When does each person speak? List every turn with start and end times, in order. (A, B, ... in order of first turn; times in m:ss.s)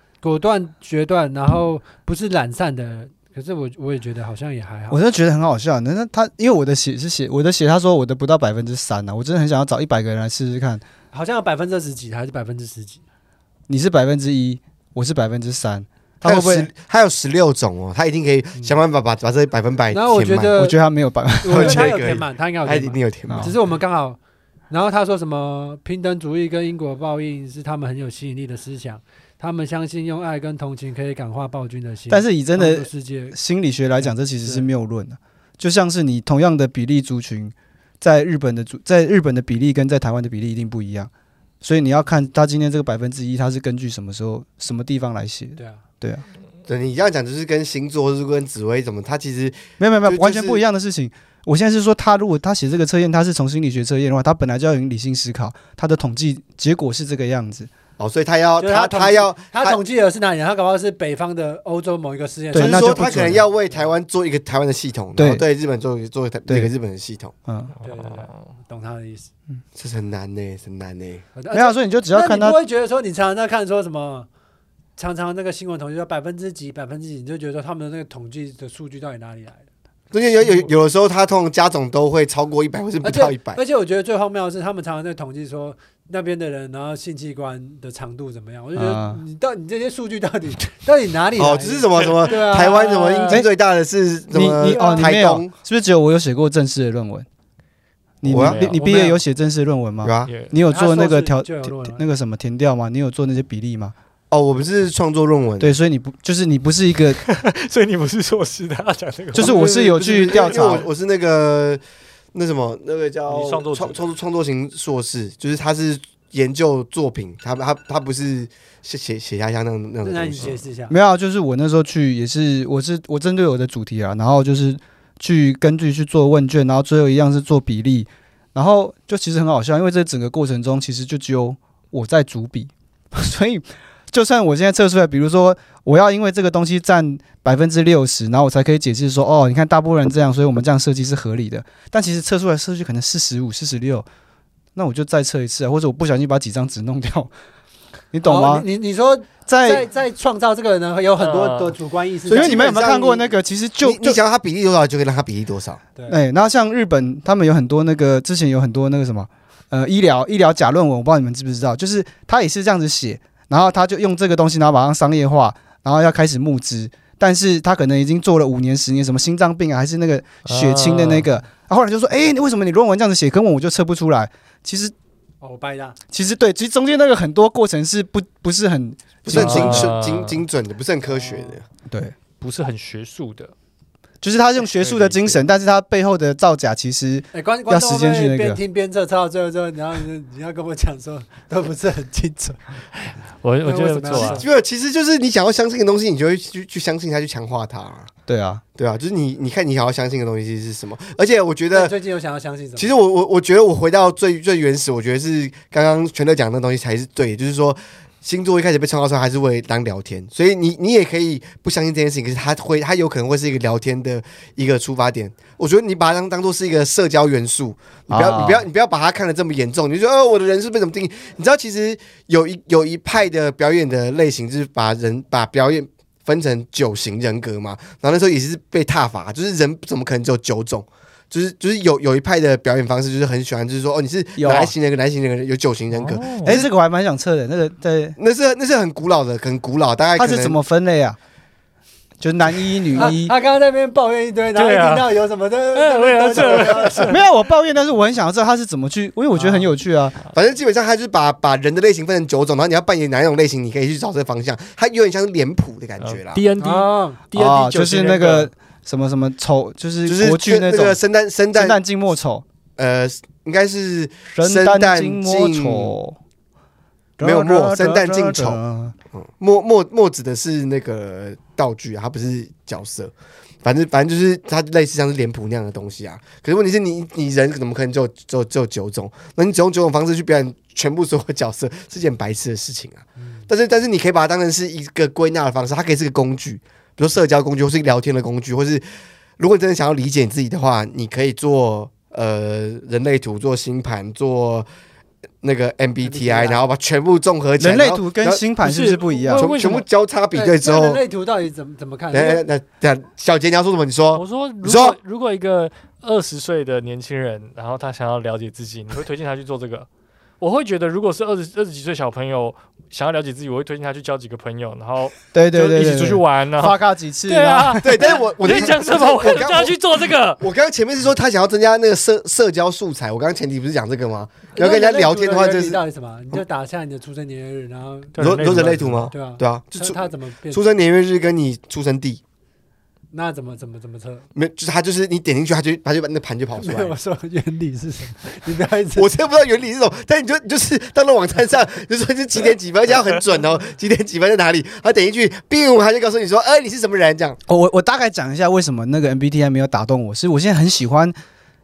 0:00.2-0:05.0 A
0:04.9-0:10.8 B
0:11.1-0:13.0 A
0:13.7-0:16.7 B
0:16.2-0:20.6 C
0:19.9-0:20.8 A
0:20.6-0:22.2 B
0:21.4-0:24.2 A
0:21.5-0:23.6 C
0:23.3-0:23.6 B
0:24.7-0:33.4 A
0:32.1-0:41.1 B
0:34.0-0:34.7 A
0:41.6-0:46.2 B
0:45.6-0:45.8 A
0:46.7-0:50.6 C
0:49.8-0:57.7 B
0:58.0-0:59.8 C
0:58.6-1:03.9 A
1:02.5-1:03.4 B
1:02.6-1:07.3 C
1:05.2-1:05.4 B
1:07.5-1:07.7 B
1:07.8-1:08.4 D
1:07.8-1:09.3 A
1:09.8-1:11.2 C
1:11.4-1:14.3 A
1:11.5-1:12.6 B
1:15.0-1:19.6 A
1:20.1-1:23.6 C
1:23.0-1:33.4 A
1:28.8-1:29.2 B
1:31.4-1:35.5 C
1:34.3-1:37.3 B
1:34.6-1:35.1 A
1:38.2-1:43.9 B
1:38.2-1:38.7 C
1:38.3-1:38.8 D
1:38.7-1:39.2 A
1:40.0-1:40.3 C
1:40.3-1:40.6 D
1:40.7-1:42.0 A
1:44.3-1:45.7 C
1:45.6-1:47.2 B
1:47.2-1:49.5 D
1:49.3-1:50.9 B
1:49.4-1:51.8 C
1:49.5-1:50.8 A
1:52.3-2:00.6 C
1:53.3-1:54.0 D
2:00.0-2:01.0 A
2:00.9-2:24.1 B
2:24.8-2:27.3 B
2:28.1-2:28.7 B
2:28.2-2:33.0 A
2:29.5-2:29.9 B
2:31.2-2:31.8 D
2:32.3-2:33.3 C
2:32.3-2:34.2 B
2:33.8-2:35.8 C
2:36.1-2:54.9 B
2:50.4-2:51.3 D
2:55.4-2:56.0 A
2:56.1-3:00.0 B
2:59.2-3:01.7 C
2:59.3-3:00.4 D
3:01.0-3:01.6 A
3:01.9-3:02.2 B
3:02.4-3:03.5 D
3:04.2-3:08.6 B
3:04.8-3:05.4 D
3:07.3-3:12.6 A
3:13.0-3:14.4 D
3:13.6-3:14.4 A
3:14.1-3:18.1 C
3:18.3-3:18.6 B
3:18.8-3:22.0 C
3:21.7-3:22.9 A
3:22.8-3:56.7 C
3:38.1-3:38.7 B
3:54.4-3:54.7 B
3:55.9-3:56.6 D
3:56.4-3:58.2 B
3:58.2-4:00.6 C
4:00.2-4:01.2 B
4:02.2-4:03.3 B
4:03.0-4:07.2 A
4:04.6-4:05.1 D
4:05.8-4:07.2 D
4:07.1-4:10.2 B
4:09.4-4:09.7 A
4:10.3-4:16.4 C
4:16.0-4:18.5 D
4:16.6-4:17.2 A
4:17.4-4:21.0 B
4:20.0-4:21.8 C
4:21.5-4:22.4 B
4:22.8-4:26.0 C
4:24.3-4:26.2 B
4:27.2-4:29.0 B
4:27.2-4:28.6 C
4:29.1-4:33.1 C
4:33.6-4:48.9 C
4:43.2-4:43.5 A
4:49.4-4:54.7 C
4:55.4-4:58.4 C
4:56.0-4:56.6 A
4:57.6-4:59.5 B
4:58.6-4:59.9 D
4:59.4-5:01.0 C
5:00.3-5:02.4 A
5:02.1-5:05.0 C
5:04.1-5:09.9 D
5:10.4-5:20.4 D
5:15.3-5:18.2 B
5:17.8-5:19.8 C
5:20.4-5:25.8 C
5:24.6-5:28.2 A
5:28.2-5:29.1 D
5:28.2-5:32.2 C
5:29.1-5:30.6 A
5:33.1-5:34.3 A
5:34.4-5:36.9 C
5:36.6-5:39.1 A
5:39.0-5:47.4 C
5:47.5-5:51.2 B